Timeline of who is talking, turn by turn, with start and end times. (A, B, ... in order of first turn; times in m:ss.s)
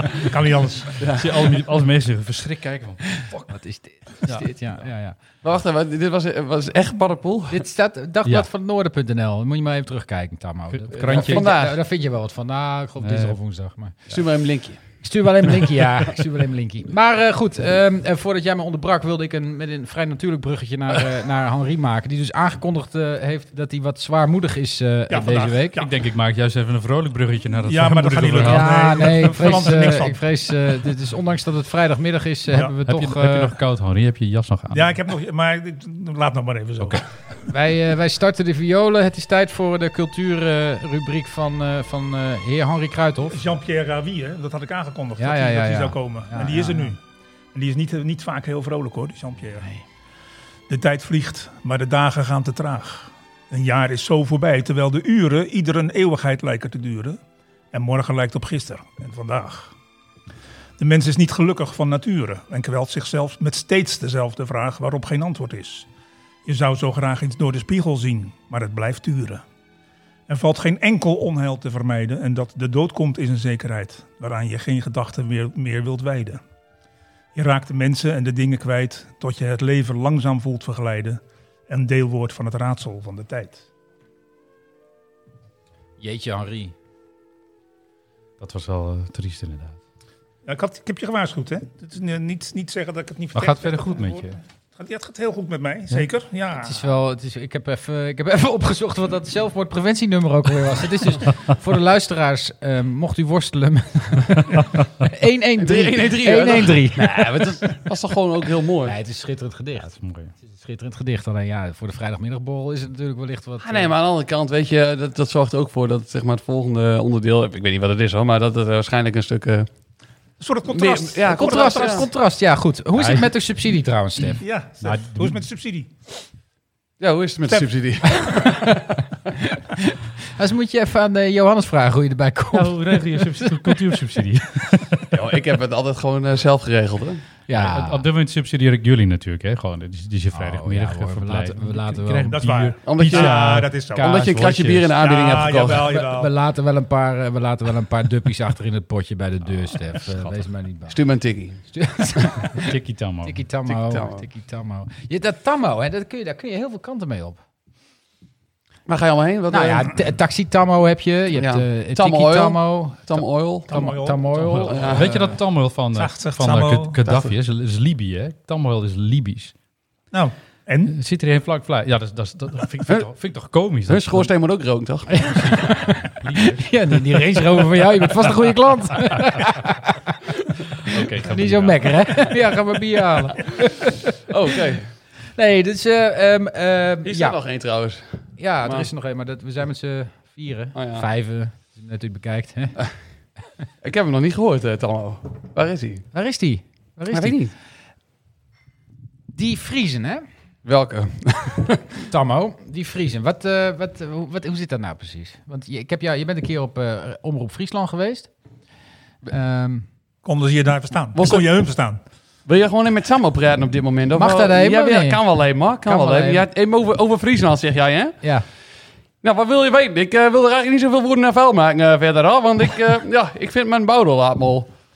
0:00.2-0:00.9 A
0:01.0-0:01.5 B
0:01.1-0:03.2 C
0:03.1-0:05.1 D
0:05.4-0:07.6 B
0:07.5-0:14.2 D
0:10.7-0:11.5 C
0:11.1-0:11.8 B
0:13.0-0:13.4 C
0:14.1-0:15.0 B
0:15.0-0:25.8 D
0:25.1-0:25.9 A
0:25.8-0:29.7 C
0:27.6-0:30.2 A
0:28.4-0:33.5 D
0:32.8-0:35.0 C
0:34.7-0:37.0 A
0:37.5-0:43.4 D
0:43.3-0:47.0 A
0:45.2-0:46.9 D
0:47.5-0:49.7 A
0:50.7-0:57.2 A
0:57.7-0:59.7 A
1:00.8-1:05.9 A
1:06.4-1:09.4 A
1:10.3-1:16.4 A
1:17.4-1:23.6 A
1:26.0-1:26.7 D
1:28.4-1:29.8 C
1:30.4-1:36.8 A
1:33.4-1:34.4 C
1:36.6-1:47.5 D
1:45.6-1:49.0 B
1:48.8-1:53.9 D
1:50.0-1:50.3 C
1:53.6-1:59.7 B
2:00.4-2:02.1 A
2:00.7-2:02.0 B
2:01.3-2:04.4 D
2:03.0-2:03.3 C
2:04.4-2:05.9 A
2:04.8-2:05.4 C
2:07.0-2:08.7 B
2:08.3-2:08.8 D
2:09.4-2:13.7 D
2:12.5-2:15.1 C
2:15.1-2:17.2 B
2:17.5-2:18.0 D
2:17.6-2:24.9 C
2:20.3-2:22.4 D
2:22.3-2:24.2 A
2:22.8-2:25.9 B
2:25.0-2:26.3 A
2:25.8-2:31.0 D
2:30.0-2:30.4 C
2:30.9-2:31.6 B
2:31.7-2:32.6 D
2:32.6-2:33.4 C
2:33.2-2:37.4 D
2:33.7-2:34.2 B
2:38.9-2:40.0 B
2:39.5-2:45.3 D
2:41.4-2:43.7 B
2:43.7-2:45.1 A
2:44.5-2:49.5 C
2:44.7-2:45.1 B
2:45.9-2:47.0 A
2:47.1-2:47.3 B
2:50.1-2:51.0 A
2:50.9-2:54.3 C
2:53.9-2:55.1 B
2:55.1-3:00.1 D
2:55.3-2:56.7 C
3:00.9-3:02.3 C
3:01.3-3:04.1 D
3:04.3-3:04.9 B
3:05.4-3:07.4 D
3:07.0-3:08.9 B
3:08.4-3:12.8 D
3:10.7-3:11.1 B
3:13.8-3:16.1 B
3:16.1-3:17.4 D
3:17.1-3:17.5 B
3:19.3-3:20.2 D
3:20.6-3:21.9 B
3:22.1-3:28.3 D
3:29.3-3:29.8 D
3:30.2-3:32.0 A
3:31.1-3:31.5 B
3:32.4-3:38.2 B
3:34.1-3:35.2 D
3:35.8-3:36.4 D
3:39.2-3:44.7 B